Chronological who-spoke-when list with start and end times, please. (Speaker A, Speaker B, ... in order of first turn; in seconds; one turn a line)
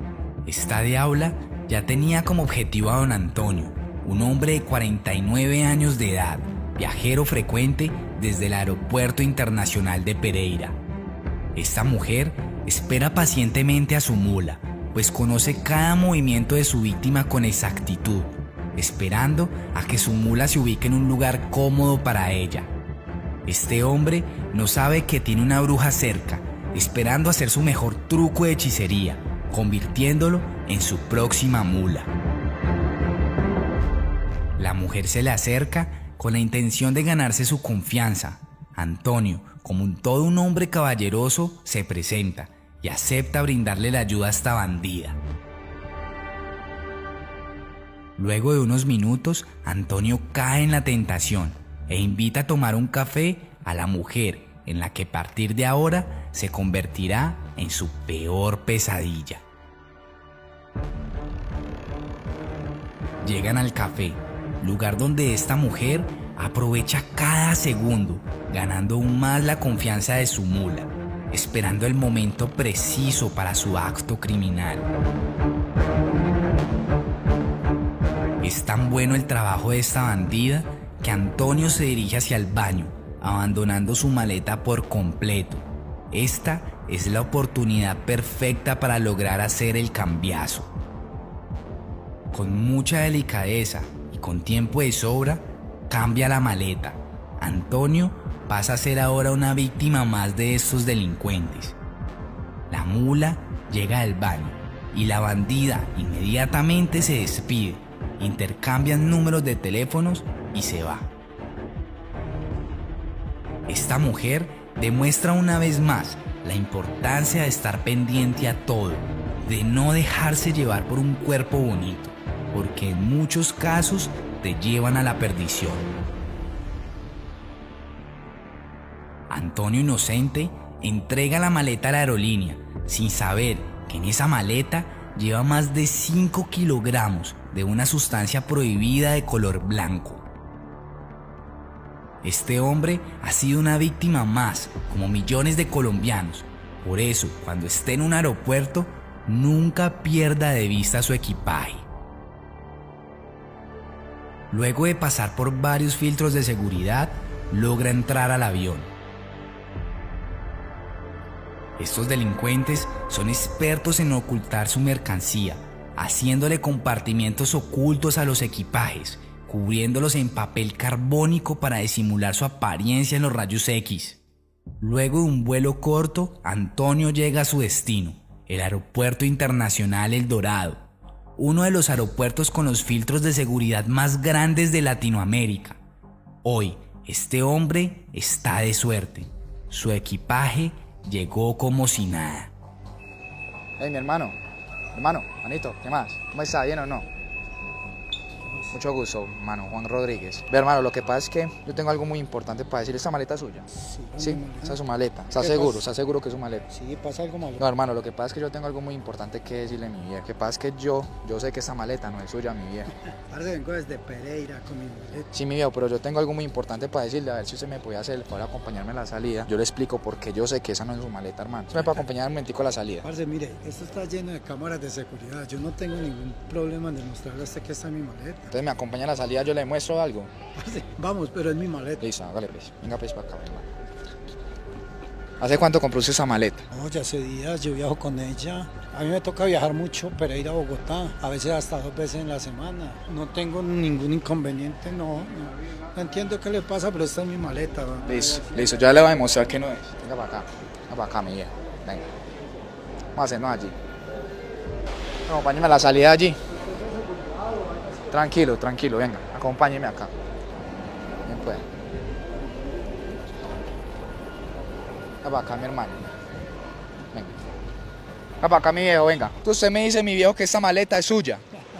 Speaker A: 0.5-10.8
Speaker A: 11.6-22.7
Speaker A: 23.5-32.1
Speaker A: 34.6-45.2
Speaker A: 48.2-59.4
Speaker A: 63.2-74.9
Speaker A: 78.4-90.7
Speaker A: 92.3-101.8
Speaker A: 102.7-111.1
Speaker A: 113.7-125.9
Speaker A: 129.3-140.3
Speaker A: 142.2-151.9
Speaker A: 154.5-158.9
Speaker A: 161.8-174.2
Speaker A: 174.8-180.8
Speaker A: 181.4-185.8
Speaker A: 186.4-192.5
Speaker B: 193.8-194.4
Speaker B: 194.9-197.1
Speaker C: 198.4-198.8
Speaker B: 198.7-203.7
Speaker C: 203.8-204.8
Speaker B: 204.2-206.7
Speaker C: 205.3-205.8
Speaker C: 206.7-207.6
Speaker B: 207.6-212.9
Speaker C: 213.1-215.3
Speaker B: 215.3-223.1
Speaker C: 221.7-222.1
Speaker C: 223.0-228.5
Speaker B: 228.5-230.3
Speaker C: 230.6-232.1
Speaker B: 232.0-233.7
Speaker B: 235.4-236.7
Speaker C: 236.7-248.2
Speaker B: 248.1-252.1
Speaker B: 253.2-253.8
Speaker B: 255.3-256.4
Speaker B: 258.1-260.1
Speaker B: 261.2-261.6
Speaker B: 265.2-266.1
Speaker B: 268.4-271.4